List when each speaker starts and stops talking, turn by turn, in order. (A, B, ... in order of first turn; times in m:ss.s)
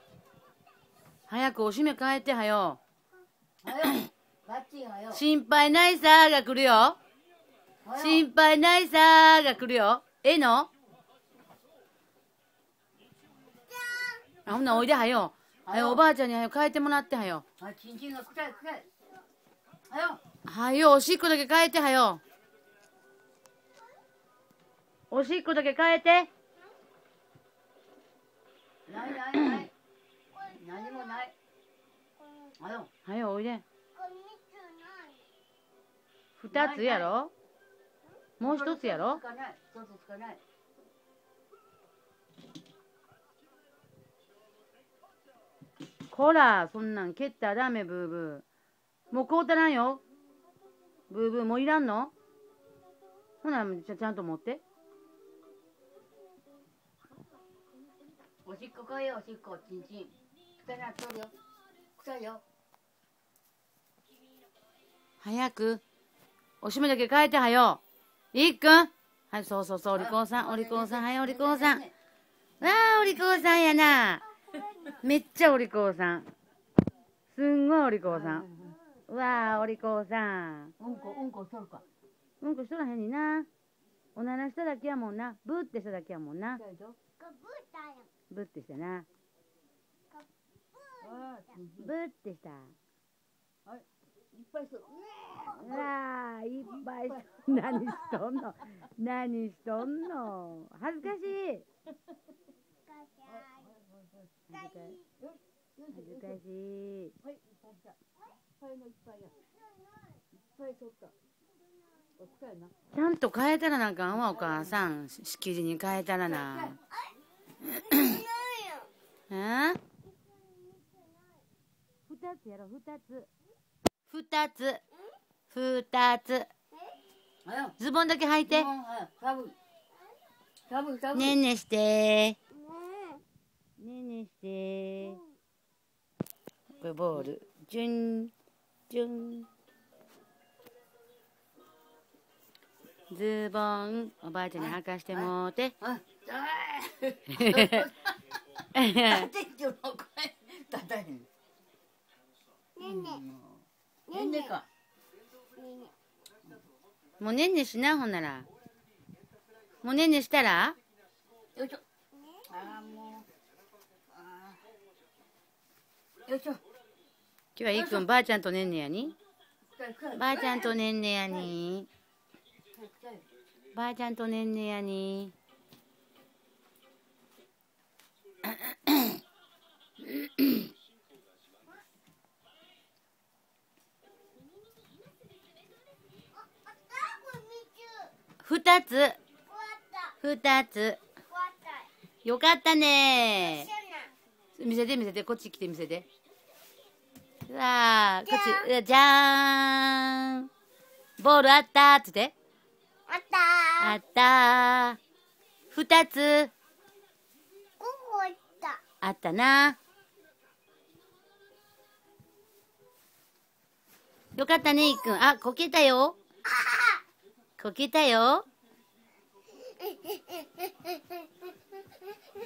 0:01.3-0:02.8 A
0:03.6-0:05.2 B
0:05.1-0:07.0 A
0:07.8-0:08.2 B
0:08.0-0:10.7 A
0:13.7-0:14.2 C
0:14.4-0:17.4 A
0:15.6-0:16.0 B
0:17.6-0:18.9 B
0:19.9-0:20.2 B
0:20.4-0:22.2 A
0:25.1-0:26.3 A
0:28.9-0:29.7 B
0:30.3-0:31.2 C
0:30.4-0:31.3 B
0:32.2-0:32.5 C
0:32.6-0:32.9 B
0:33.0-0:33.6 A
0:33.9-0:35.3 C
0:36.4-0:37.3 A
0:36.5-0:37.2 B
0:38.4-0:39.2 A
0:38.4-0:40.4 B
0:46.1-0:48.4 A
0:49.1-0:50.0 A
0:51.1-0:52.1 A
0:53.4-0:54.6 A
0:58.4-1:01.3 B
1:02.0-1:02.4 B
1:05.2-1:05.8 A
1:06.6-1:07.8 A
1:08.3-1:11.8 A
1:09.9-1:11.9 B
1:12.6-1:14.2 A
1:14.6-1:14.9 C
1:14.9-1:16.3 A
1:17.3-1:18.4 A
1:18.1-1:18.8 B
1:19.1-1:20.7 A
1:20.8-1:21.8 B
1:22.4-1:23.5 A
1:24.1-1:26.6 A
1:26.5-1:27.0 B
1:27.2-1:28.1 C
1:28.3-1:29.1 A
1:31.0-1:31.9 B
1:31.8-1:32.7 A
1:33.6-1:35.9 B
1:35.6-1:41.6 A
1:36.6-1:38.0 B
1:42.9-1:43.5 C
1:43.2-1:44.3 B
1:44.5-1:45.0 A
1:44.5-1:45.0 C
1:45.2-1:46.4 B
1:45.9-1:47.2 A
1:47.2-1:48.0 B
1:48.5-1:49.3 B
1:50.5-1:51.1 B
1:52.2-1:52.7 B
1:52.9-1:56.8 A
1:54.1-1:54.8 B
1:56.2-1:56.8 B
1:57.9-1:58.2 A
1:57.9-1:58.9 C
1:59.3-1:59.8 A
2:00.1-2:01.2 C
2:02.1-2:03.3 A
2:04.1-2:04.8 A
2:05.5-2:06.5 A
2:07.4-2:07.8 B
2:07.8-2:08.7 A
2:08.4-2:09.5 B
2:10.7-2:11.4 B
2:11.1-2:12.4 A
2:12.6-2:13.2 C
2:13.8-2:15.2 A
2:16.8-2:18.3 A
2:18.9-2:19.5 A
2:23.1-2:25.7 A
2:24.6-2:28.2 B
2:27.4-2:27.8 A
2:28.7-2:29.3 A
2:29.0-2:31.3 B
2:32.8-2:33.2 C
2:32.8-2:34.7 B
2:34.1-2:34.5 C
2:35.6-2:35.9 C
2:37.2-2:38.5 A
2:39.8-2:40.8 A
2:41.5-2:41.8 B
2:42.5-2:43.3 B
2:44.1-2:44.6 B
2:46.3-2:46.6 B
2:47.6-2:49.2 A
2:47.7-2:48.0 B
2:49.6-2:50.7 B
2:50.1-2:51.9 A
2:52.7-2:53.2 B
2:53.7-2:55.3 A
2:58.4-2:59.2 A
3:00.1-3:00.6 A
3:06.5-3:08.1 C
3:08.4-3:09.2 A
3:09.5-3:10.2 C
3:10.2-3:11.0 A
3:11.3-3:11.9 C
3:12.2-3:13.7 A
3:13.5-3:14.1 C
3:14.5-3:16.0 A
3:17.4-3:20.5 A
3:18.3-3:18.6 C
3:21.2-3:22.3 A
3:23.1-3:24.0 C
3:23.8-3:25.0 A
3:25.7-3:26.5 A
3:27.8-3:28.8 C
3:29.0-3:29.8 A
3:34.4-3:36.2 A
3:36.5-3:37.0 C
3:37.6-3:38.4 A
3:39.6-3:41.3 C